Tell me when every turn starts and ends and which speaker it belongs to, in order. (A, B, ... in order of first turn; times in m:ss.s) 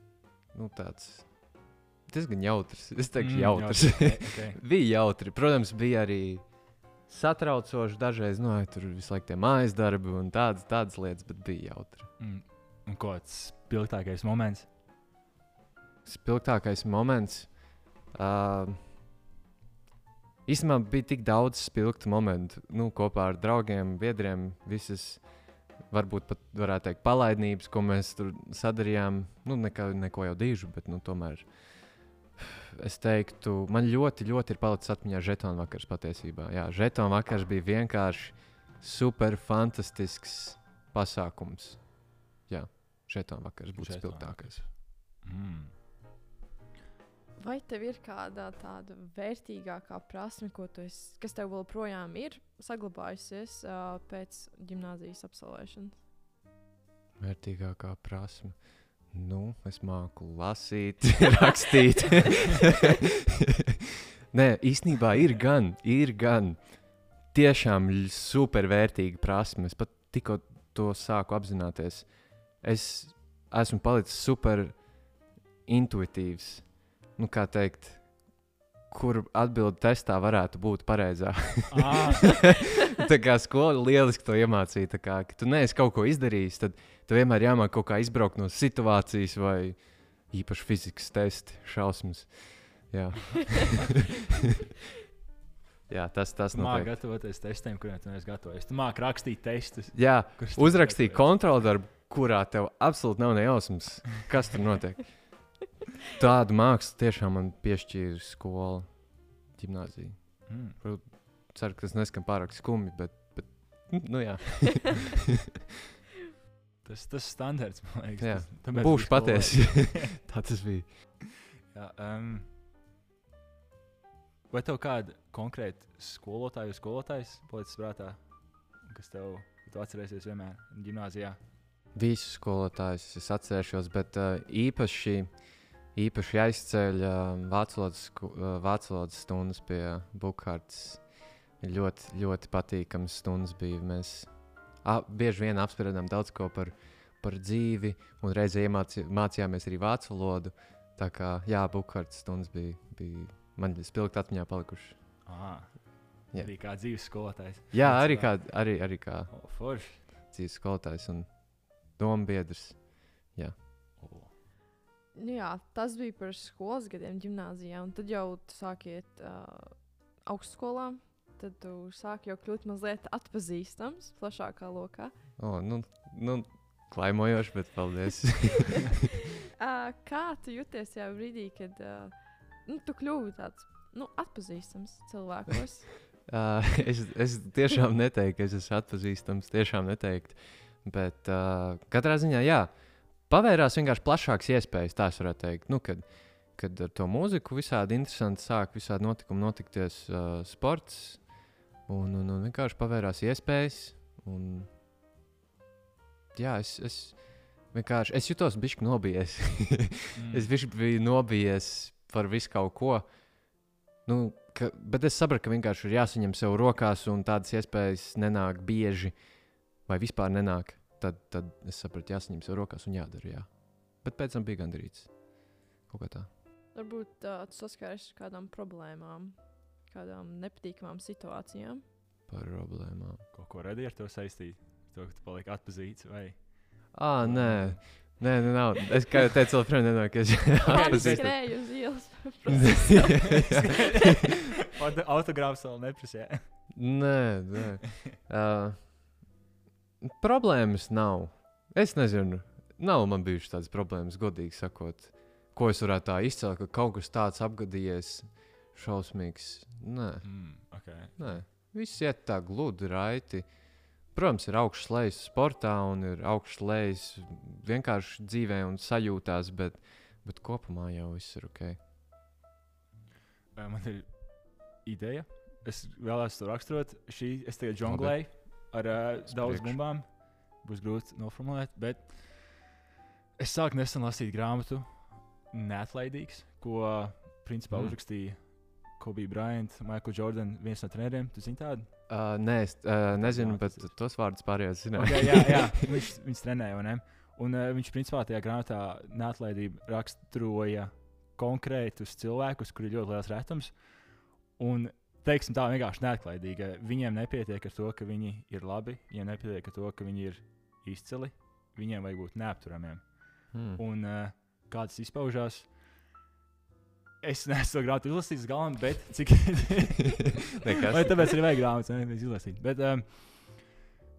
0:00.5-0:12.1 A
0:03.2-0:04.6 B
0:12.2-0:14.7 B
0:16.0-0:18.9 A
0:20.4-0:44.7 A
0:43.8-0:45.7 B
0:47.4-0:56.0 C
0:57.2-1:02.8 A
1:04.3-1:15.1 A
1:15.6-1:18.4 A
1:18.9-1:22.3 A
1:21.7-1:22.4 B
1:22.8-1:34.0 A
1:35.9-1:37.0 A
1:36.5-1:41.6 B
1:39.9-1:45.6 A
1:46.2-1:55.2 A
1:50.5-1:50.8 B
1:56.8-2:00.2 B
1:58.2-2:00.9 A
2:01.7-2:02.5 B
2:04.5-2:11.4 B
2:11.9-2:35.2 A
2:35.2-2:40.0 B
2:36.3-2:37.2 A
2:37.7-2:43.6 A
2:44.0-2:44.3 B
2:45.1-2:55.1 C
2:55.4-2:58.9 A
2:59.6-3:06.0 C
3:06.3-3:21.3 A
3:21.9-3:24.7 A
3:26.3-3:33.5 A
3:30.1-3:30.5 B
3:34.0-3:46.3 A
3:46.7-3:51.8 C
3:52.3-3:53.2 A
3:53.3-3:58.2 B
3:56.9-4:02.0 A
4:00.6-4:01.3 B
4:00.6-4:03.6 C
4:02.5-4:03.9 A
4:02.6-4:06.7 B
4:06.7-4:09.1 A
4:10.0-4:31.8 A
4:20.2-4:21.4 B
4:33.5-4:42.8 B
4:37.8-4:39.8 A
4:43.4-4:52.1 B
4:47.7-4:48.0 A
4:52.1-4:55.8 A
4:53.1-4:54.4 B
4:55.0-5:15.8 B
5:13.5-5:13.8 A
5:17.2-5:20.4 B
5:20.6-5:21.4 A
5:20.9-5:23.8 B